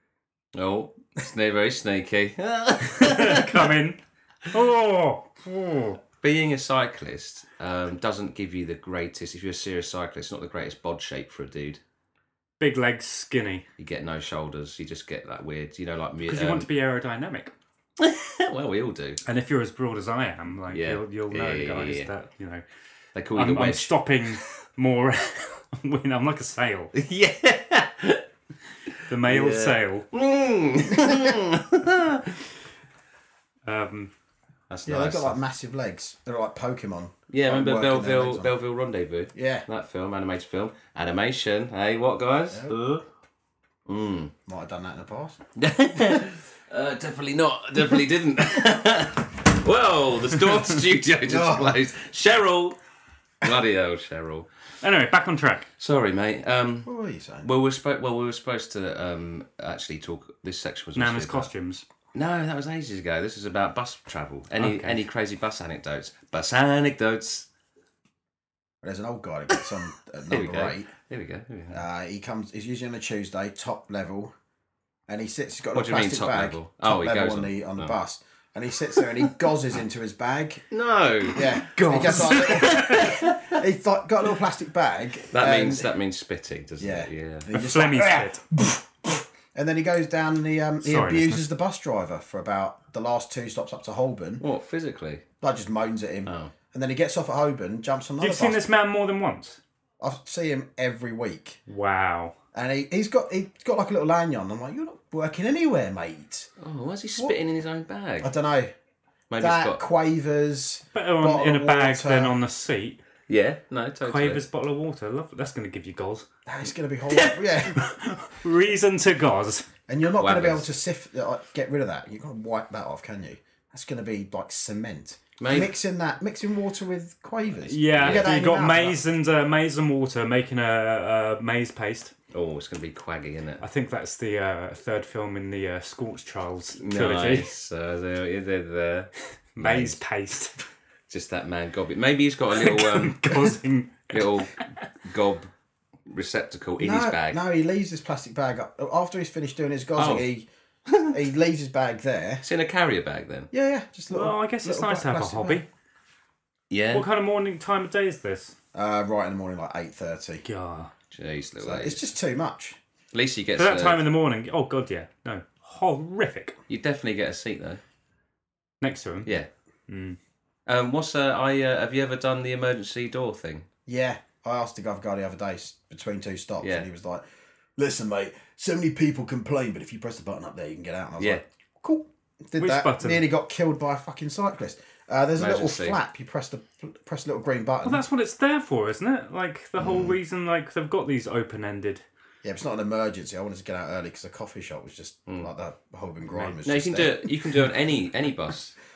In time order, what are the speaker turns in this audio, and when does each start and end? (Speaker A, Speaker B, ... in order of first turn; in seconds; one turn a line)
Speaker A: 0.6-3.7
Speaker B: 3.0-6.0
Speaker A: 6.2-11.8
Speaker B: 12.6-13.7
Speaker A: 13.8-16.7
Speaker B: 16.3-17.5
Speaker A: 18.0-19.2
Speaker B: 19.3-22.6
Speaker A: 20.7-22.1
Speaker A: 23.1-24.5
Speaker B: 23.4-26.9
Speaker A: 26.9-28.2
Speaker B: 29.1-30.1
Speaker A: 29.1-32.4
Speaker B: 33.7-34.1
Speaker A: 34.7-35.4
Speaker C: 34.9-38.5
Speaker A: 37.3-43.0
Speaker C: 39.4-39.7
Speaker A: 43.9-44.3
Speaker C: 44.5-45.4
Speaker A: 45.6-52.8
Speaker C: 51.3-51.8
Speaker A: 53.4-54.5
Speaker B: 54.8-55.7
Speaker A: 55.8-56.9
Speaker C: 56.9-57.5
Speaker A: 57.4-61.5
Speaker B: 61.0-61.9
Speaker A: 62.1-67.5
Speaker B: 64.6-65.0
Speaker C: 68.8-70.9
Speaker A: 70.3-71.8
Speaker C: 71.7-74.3
Speaker C: 75.1-80.6
Speaker A: 75.8-78.0
Speaker A: 80.7-83.6
Speaker C: 81.3-85.9
Speaker B: 81.7-83.1
Speaker A: 85.3-87.5
Speaker C: 86.8-94.5
Speaker B: 87.5-88.4
Speaker B: 90.8-91.5
Speaker A: 94.4-95.2
Speaker C: 95.4-98.6
Speaker A: 96.3-96.5
Speaker B: 98.2-99.6
Speaker C: 100.0-101.6
Speaker B: 101.7-102.3
Speaker C: 102.5-106.5
Speaker A: 106.6-108.3
Speaker C: 108.2-108.7
Speaker A: 109.3-109.8
Speaker C: 109.4-112.4
Speaker B: 110.9-113.0
Speaker A: 113.3-114.4
Speaker B: 114.0-116.3
Speaker C: 116.5-117.8
Speaker B: 117.7-119.7
Speaker C: 119.9-129.0
Speaker A: 120.2-120.7
Speaker A: 125.4-125.7
Speaker B: 127.7-132.1
Speaker A: 128.0-128.3
Speaker A: 132.3-133.6
Speaker B: 133.6-137.5
Speaker A: 136.8-140.0
Speaker B: 139.6-140.7
Speaker A: 141.1-143.6
Speaker B: 142.6-144.3
Speaker A: 144.1-145.5
Speaker A: 146.1-147.4
Speaker C: 146.8-150.5
Speaker A: 150.0-150.3
Speaker A: 150.9-151.2
Speaker C: 151.1-152.4
Speaker A: 152.4-153.5
Speaker C: 153.5-155.6
Speaker B: 154.1-155.7
Speaker A: 156.7-157.1
Speaker B: 156.9-158.6
Speaker C: 158.7-160.4
Speaker B: 160.4-160.9
Speaker A: 161.1-162.0
Speaker C: 161.6-162.8
Speaker A: 163.1-164.0
Speaker B: 163.6-166.6
Speaker A: 166.7-167.8
Speaker B: 168.8-169.3
Speaker B: 169.9-170.2
Speaker A: 170.7-173.7
Speaker C: 173.9-177.2
Speaker A: 176.6-176.9
Speaker C: 177.8-188.0
Speaker B: 182.6-183.3
Speaker A: 185.4-186.0
Speaker B: 187.8-192.0
Speaker C: 192.4-197.3
Speaker A: 196.6-198.8